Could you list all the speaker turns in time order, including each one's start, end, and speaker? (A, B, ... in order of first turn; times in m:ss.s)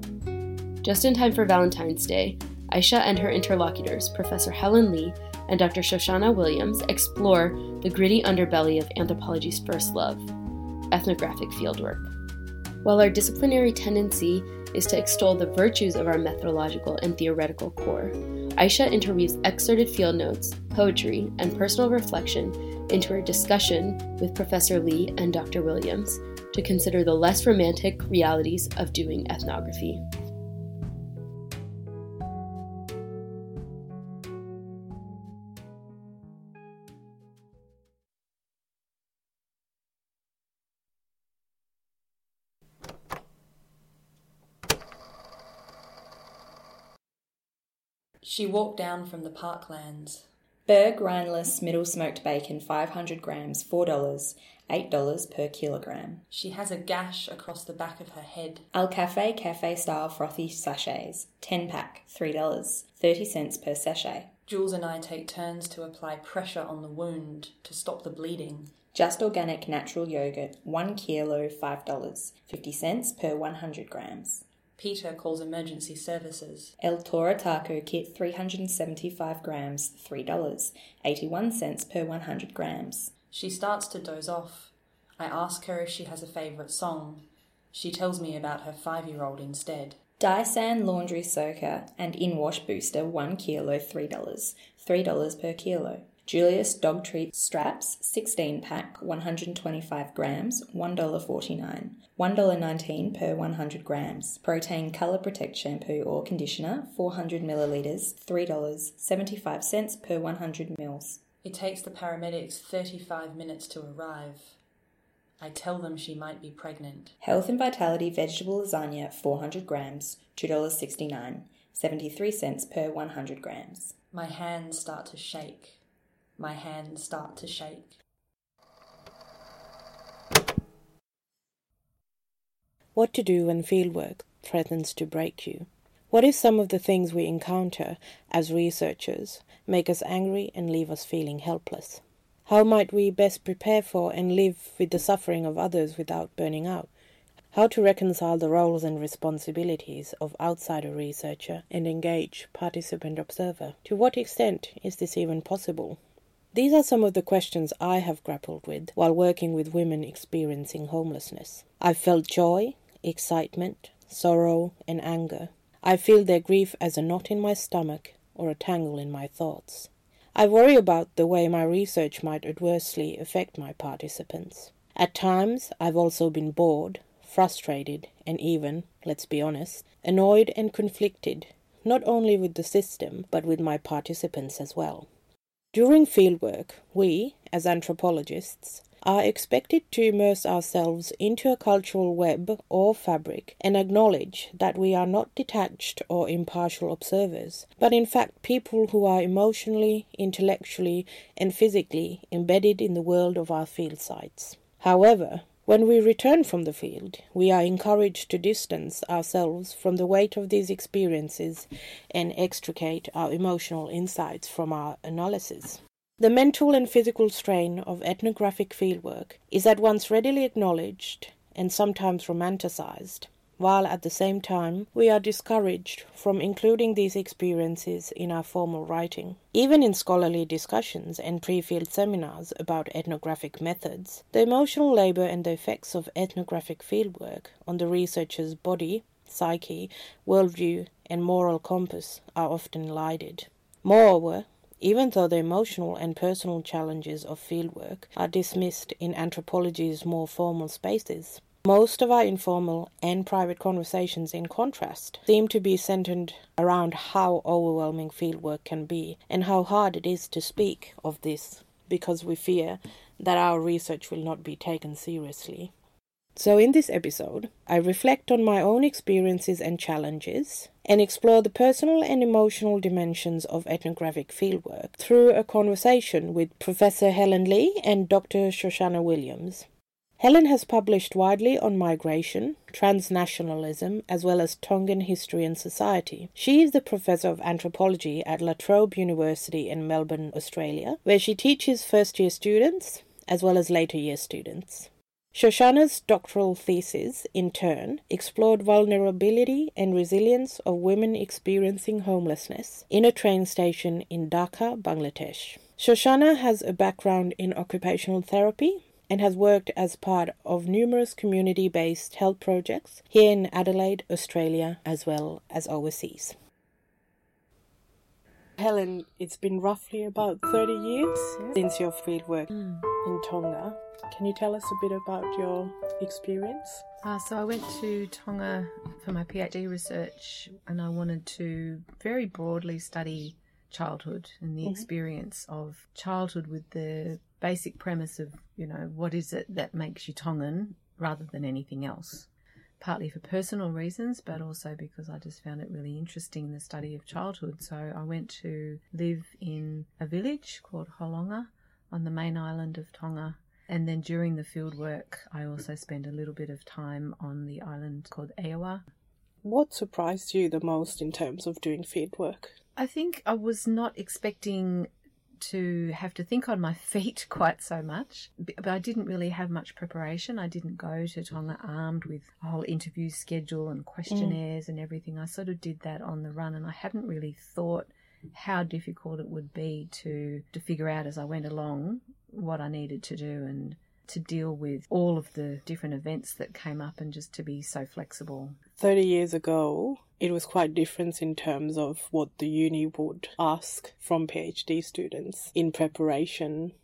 0:00.8-0:10.3 A
0:10.9-0:12.1 A
0:12.8-0:30.0 A
0:48.2-0:50.3 B
0:50.7-0:56.3 C
0:56.3-0:58.7 B
0:58.7-1:04.4 C
1:04.5-1:08.8 B
1:08.9-1:14.5 C
1:14.8-1:16.7 B
1:16.8-1:23.2 C
1:23.3-1:30.0 B
1:30.2-1:51.3 C
1:51.4-1:54.6 B
1:55.4-1:57.2 B
1:57.2-2:04.0 C
2:04.1-2:05.8 B
2:06.4-2:08.0 B
2:13.0-2:26.9 D
2:27.5-2:36.0 D
2:36.5-3:05.1 D
3:05.7-4:25.7 D
4:26.4-4:39.7 D
4:40.2-5:16.4 D
5:18.6-5:26.8 D
5:27.0-5:42.3 E
5:42.8-5:58.8 E
5:59.4-6:02.6 D
6:02.8-6:28.6 E
6:14.1-6:14.4 D
6:28.8-6:36.7 D